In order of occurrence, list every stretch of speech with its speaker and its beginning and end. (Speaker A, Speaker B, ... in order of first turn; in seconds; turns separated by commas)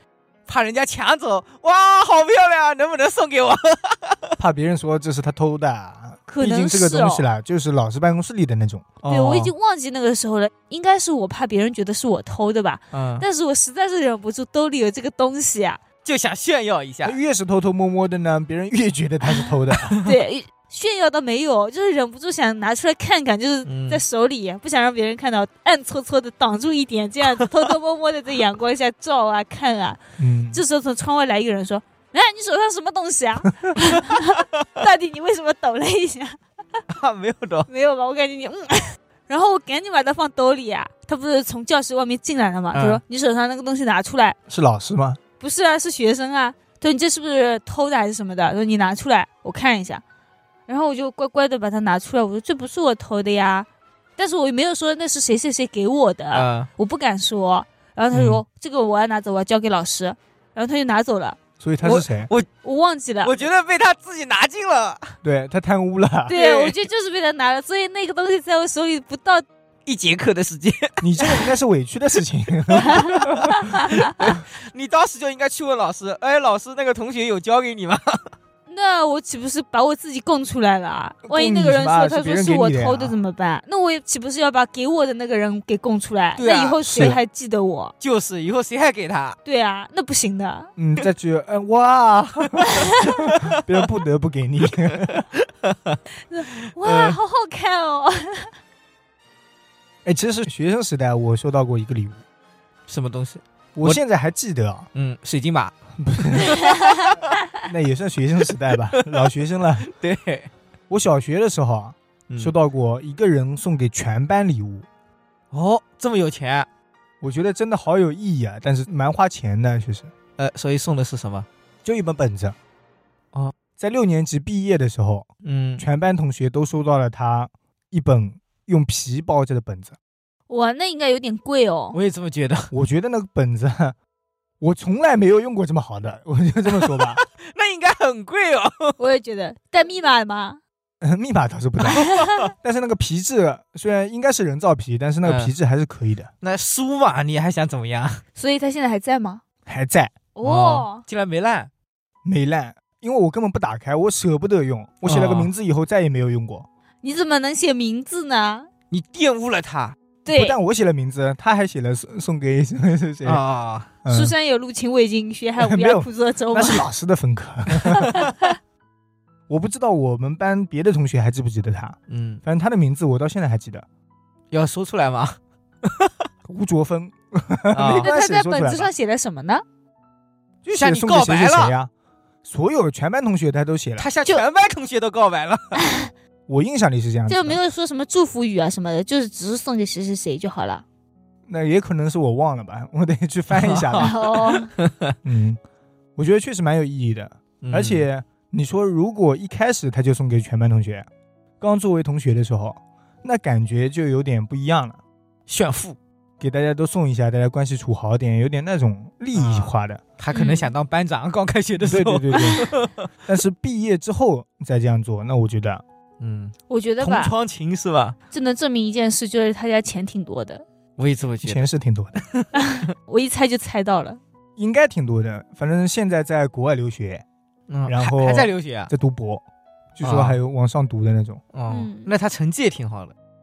Speaker A: 0.5-4.4, Speaker B: 4.4-9.0, Speaker C: 6.3-7.2, Speaker A: 9.0-9.5, Speaker C: 9.1-15.8, Speaker A: 12.9-13.2, Speaker A: 16.1-17.2, Speaker B: 17.0-20.0, Speaker C: 20.0-30.0, Speaker A: 23.7-24.0, Speaker B: 30.2-30.6, Speaker C: 30.5-36.4, Speaker A: 36.9-37.7, Speaker C: 37.7-44.4, Speaker A: 42.7-43.0, Speaker B: 44.5-45.2, Speaker C: 45.4-50.0, Speaker C: 50.7-61.4, Speaker A: 56.3-56.7, Speaker B: 58.1-58.4, Speaker B: 61.6-62.3, Speaker A: 61.8-62.5, Speaker C: 62.6-63.3, Speaker A: 63.2-65.1, Speaker B: 65.2-66.6, Speaker C: 66.3-69.5, Speaker A: 69.9-71.5, Speaker B: 71.0-73.7, Speaker C: 72.8-74.1, Speaker A: 72.8-73.3, Speaker A: 73.9-78.2, Speaker C: 78.7-87.9, Speaker B: 81.3-83.2, Speaker A: 86.4-87.2, Speaker B: 86.8-87.2, Speaker A: 88.0-89.4, Speaker C: 89.5-90.7, Speaker B: 90.8-95.2, Speaker C: 92.6-92.9, Speaker A: 95.1-96.0, Speaker C: 96.3-98.5, Speaker A: 96.8-97.2, Speaker B: 100.0-102.2, Speaker A: 102.9-104.0, Speaker B: 103.8-104.9, Speaker A: 104.9-105.7, Speaker B: 106.0-106.6, Speaker C: 106.5-107.2, Speaker B: 107.6-109.9, Speaker A: 108.9-109.3, Speaker A: 109.8-110.5, Speaker B: 110.9-114.9, Speaker A: 115.5-116.7, Speaker B: 117.2-120.1, Speaker A: 120.4-121.5, Speaker B: 121.8-122.6, Speaker B: 123.8-125.3, Speaker A: 125.4-125.8, Speaker B: 125.8-130.0, Speaker C: 130.5-132.0, Speaker A: 131.9-132.7, Speaker B: 132.7-134.0, Speaker B: 134.6-137.2, Speaker A: 136.8-139.0, Speaker C: 139.0-140.6, Speaker B: 141.0-146.3, Speaker C: 141.9-142.4, Speaker A: 141.9-142.5, Speaker A: 145.2-145.5, Speaker A: 146.4-148.2, Speaker C: 148.4-149.4, Speaker B: 149.7-150.1, Speaker C: 150.4-151.0, Speaker A: 150.4-151.7, Speaker B: 152.2-156.7, Speaker A: 155.1-155.5, Speaker C: 157.0-158.7, Speaker A: 158.9-160.0, Speaker C: 160.2-160.6, Speaker B: 160.3-163.4, Speaker A: 163.2-163.9, Speaker B: 164.0-164.3, Speaker C: 164.1-166.8, Speaker B: 165.6-168.2, Speaker C: 168.1-168.5, Speaker B: 169.5-173.8, Speaker A: 172.1-172.4, Speaker A: 174.5-176.1, Speaker B: 176.4-178.9, Speaker A: 177.7-178.1, Speaker C: 178.0-179.6, Speaker B: 180.6-181.9, Speaker A: 180.7-181.8, Speaker B: 182.4-184.1, Speaker A: 184.0-185.8, Speaker C: 185.8-186.1, Speaker B: 186.5-187.6, Speaker C: 187.3-190.8, Speaker B: 191.5-194.2, Speaker A: 193.5-195.1, Speaker C: 194.0-194.7, Speaker B: 195.2-195.6, Speaker B: 196.2-201.1, Speaker A: 197.6-198.1, Speaker B: 201.6-205.0, Speaker A: 205.5-206.0, Speaker B: 206.4-210.0, Speaker A: 209.3-213.1, Speaker C: 210.3-210.7, Speaker B: 211.8-212.7, Speaker C: 212.3-212.6, Speaker B: 213.3-215.8, Speaker A: 216.2-218.2, Speaker C: 216.7-217.3, Speaker C: 218.3-220.6, Speaker A: 221.0-221.6, Speaker B: 221.4-222.2, Speaker A: 222.3-222.6, Speaker C: 222.6-224.2, Speaker B: 224.6-227.2, Speaker A: 227.7-228.9, Speaker B: 227.9-229.4, Speaker B: 230.0-231.4, Speaker A: 230.0-230.4, Speaker A: 231.5-233.1, Speaker C: 231.7-232.1